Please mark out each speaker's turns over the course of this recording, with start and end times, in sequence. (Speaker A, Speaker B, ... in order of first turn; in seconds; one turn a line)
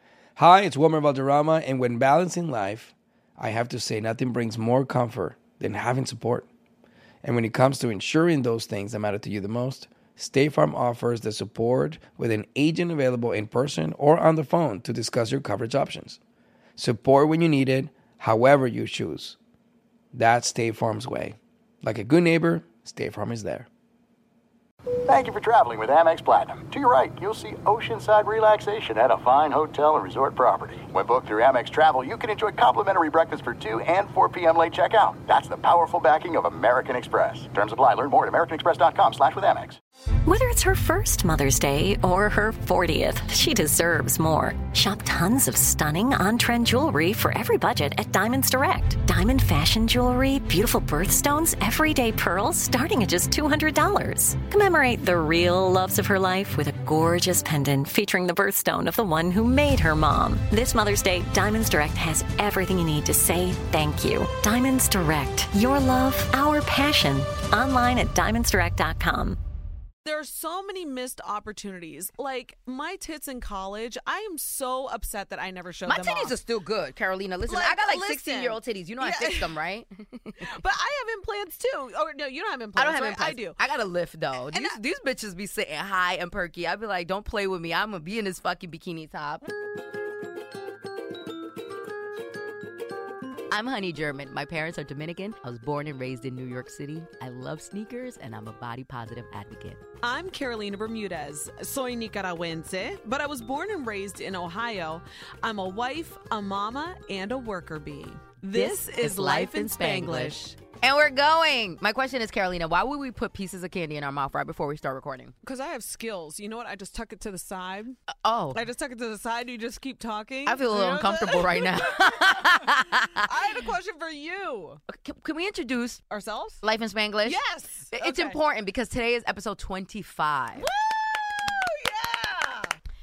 Speaker A: 0.3-6.5
Speaker A: 7.2-16.2
Speaker A: 16.8-19.4
Speaker A: 20.1-23.7
Speaker B: 25.0-39.8
Speaker C: 40.2-69.4
Speaker D: 70.0-76.3
Speaker E: 75.8-80.4
Speaker D: 77.5-79.6
Speaker D: 80.4-83.6
Speaker E: 82.8-89.5
Speaker D: 84.5-84.8
Speaker E: 93.5-99.8
Speaker D: 100.0-110.6
Speaker E: 108.5-115.3
Speaker D: 115.4-118.0
Speaker E: 118.2-118.6
Speaker D: 118.5-124.8
Speaker E: 120.5-123.3
Speaker E: 124.9-126.0
Speaker D: 126.1-126.6
Speaker E: 126.6-130.7
Speaker D: 127.2-128.4
Speaker D: 130.5-132.8